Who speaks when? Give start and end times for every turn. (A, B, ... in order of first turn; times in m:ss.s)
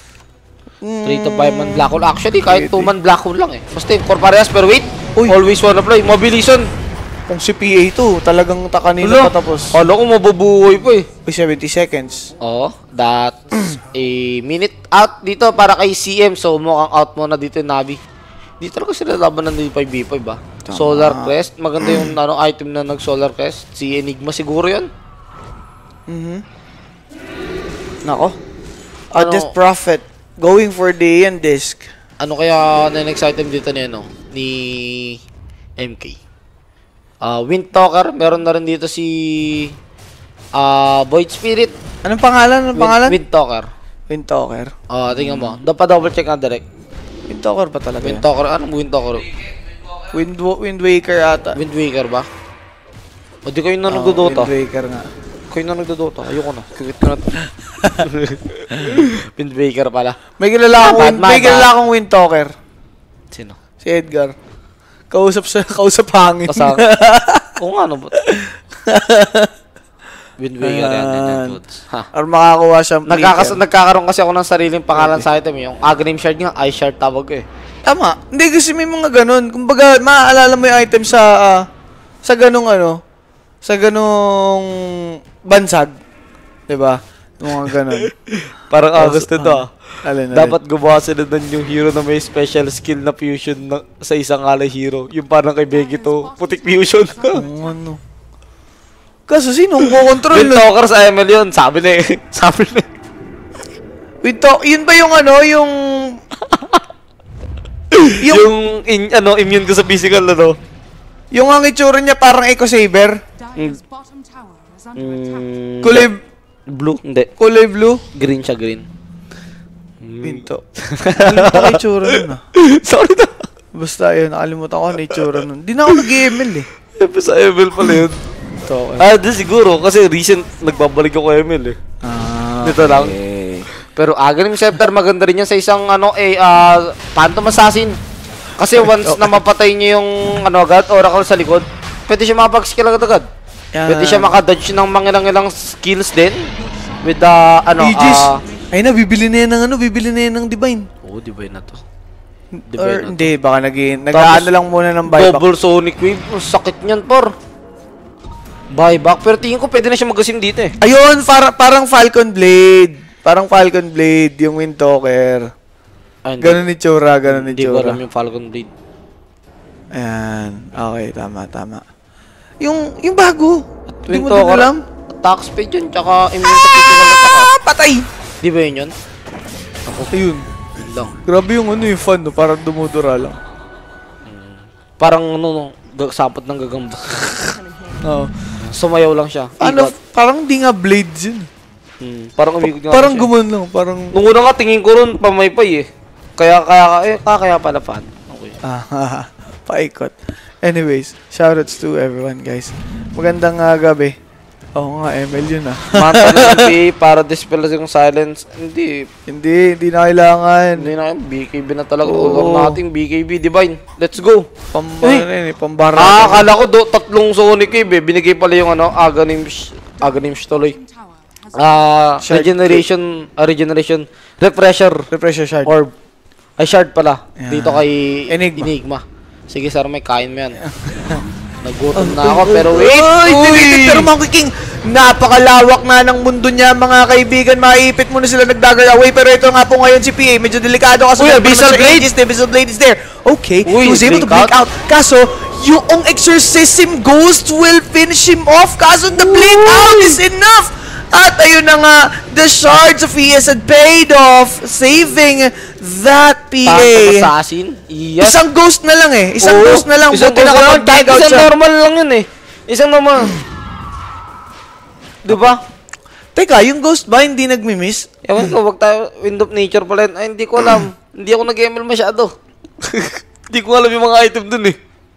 0:00.8-0:01.9 A
0:01.0-0:06.7 B
0:02.5-0:02.9 A
0:07.3-0:09.8 A
0:09.0-0:11.1 B
0:11.2-0:12.3 A
0:12.4-0:18.0 B
0:18.6-0:24.9 B
0:20.7-0:22.2 A
0:26.1-0:26.4 A
0:28.0-0:28.4 A
0:29.1-0:31.8 A
0:29.2-0:29.5 B
0:32.2-0:35.2 B
0:35.8-0:36.2 B
0:37.2-0:39.7 B
0:40.6-0:41.7 B
0:42.0-0:43.2 A
0:42.8-0:43.7 B
0:44.1-0:45.6 A
0:44.9-0:46.6 B
0:47.3-0:48.2 A
0:48.0-0:49.3 B
0:50.1-0:51.6 A
0:51.6-0:52.3 B
0:53.5-0:54.5 B
0:53.9-0:55.1 A
0:55.5-0:57.4 B
0:57.6-0:58.1 A
0:58.0-1:00.2 B
0:58.8-0:59.1 A
1:00.4-1:02.5 A
1:00.8-1:01.7 B
1:03.8-1:04.4 A
1:05.1-1:07.6 A
1:06.5-1:06.8 B
1:07.6-1:08.2 B
1:08.2-1:09.5 A
1:10.4-1:12.1 B
1:10.6-1:11.6 A
1:12.1-1:13.6 A
1:13.1-1:17.4 B
1:14.9-1:15.2 A
1:17.9-1:21.7 A
1:22.2-1:23.0 A
1:23.6-1:26.0 A
1:26.7-1:28.1 A
1:28.3-1:29.7 B
1:29.0-1:30.6 A
1:30.3-1:37.4 B
1:35.7-1:38.0 C
1:37.3-1:38.0 A
1:39.3-1:40.7 A
1:40.3-1:42.9 B
1:44.2-1:46.2 A
1:46.6-1:46.8 B
1:47.9-1:50.6 B
1:48.2-1:48.5 A
1:51.3-1:53.2 A
1:53.4-1:55.7 C
1:55.0-1:56.1 B
1:55.8-1:56.2 A
1:56.7-1:57.3 B
1:57.4-1:58.0 A
1:58.1-1:58.8 B
2:00.0-2:03.5 B
2:00.2-2:02.4 A
2:03.7-2:06.7 A
2:07.0-2:08.2 B
2:08.5-2:09.1 A
2:09.0-2:11.8 B
2:10.0-2:10.9 C
2:12.0-2:13.7 A
2:12.6-2:13.2 B
2:13.9-2:18.0 B
2:18.6-2:23.3 B
2:18.9-2:19.4 A
2:23.7-2:24.4 A
2:23.9-2:26.5 B
2:26.8-2:27.3 C
2:27.0-2:28.4 B
2:27.8-2:30.9 A
2:31.0-2:31.8 B
2:32.6-2:35.4 A
2:32.7-2:33.3 B
2:34.1-2:34.5 B
2:35.1-2:37.3 B
2:38.7-2:40.7 B
2:40.8-2:45.5 A
2:46.2-2:46.6 B
2:46.4-2:48.0 A
2:47.3-2:48.7 B
2:49.9-2:51.8 A
2:52.6-2:54.8 A
2:53.9-2:57.5 B
2:56.4-2:58.1 A
2:58.4-2:58.9 B
2:59.9-3:00.1 B
3:00.1-3:00.5 A
3:00.8-3:01.2 B
3:01.2-3:03.4 A
3:04.3-3:07.6 B
3:08.0-3:08.3 A
3:08.6-3:09.9 B
3:09.6-3:11.5 A
3:12.0-3:13.3 B
3:12.8-3:14.2 A
3:14.1-3:15.9 B
3:16.4-3:18.6 B
3:18.6-3:24.2 A
3:24.8-3:26.8 A
3:26.0-3:29.1 B
3:29.3-3:30.9 A
3:30.8-3:34.5 B
3:32.0-3:32.8 A
3:34.7-3:36.5 A
3:36.0-3:40.8 B
3:40.0-3:42.2 C
3:41.5-3:45.1 B
3:42.2-3:42.8 A
3:45.1-3:45.7 A
3:45.6-3:45.9 B
3:46.6-3:50.6 B
3:47.4-3:48.7 A
3:50.6-3:51.2 A
3:51.0-3:51.5 C
3:51.6-3:54.1 B
3:52.0-4:17.3 A
4:01.2-4:02.1 B
4:03.7-4:04.5 B
4:09.1-4:10.2 B
4:16.6-4:18.4 B
4:18.2-4:21.5 A
4:19.4-4:23.4 B
4:25.3-4:25.6 B
4:26.4-4:28.1 A
4:28.3-4:32.3 B
4:32.8-4:34.8 B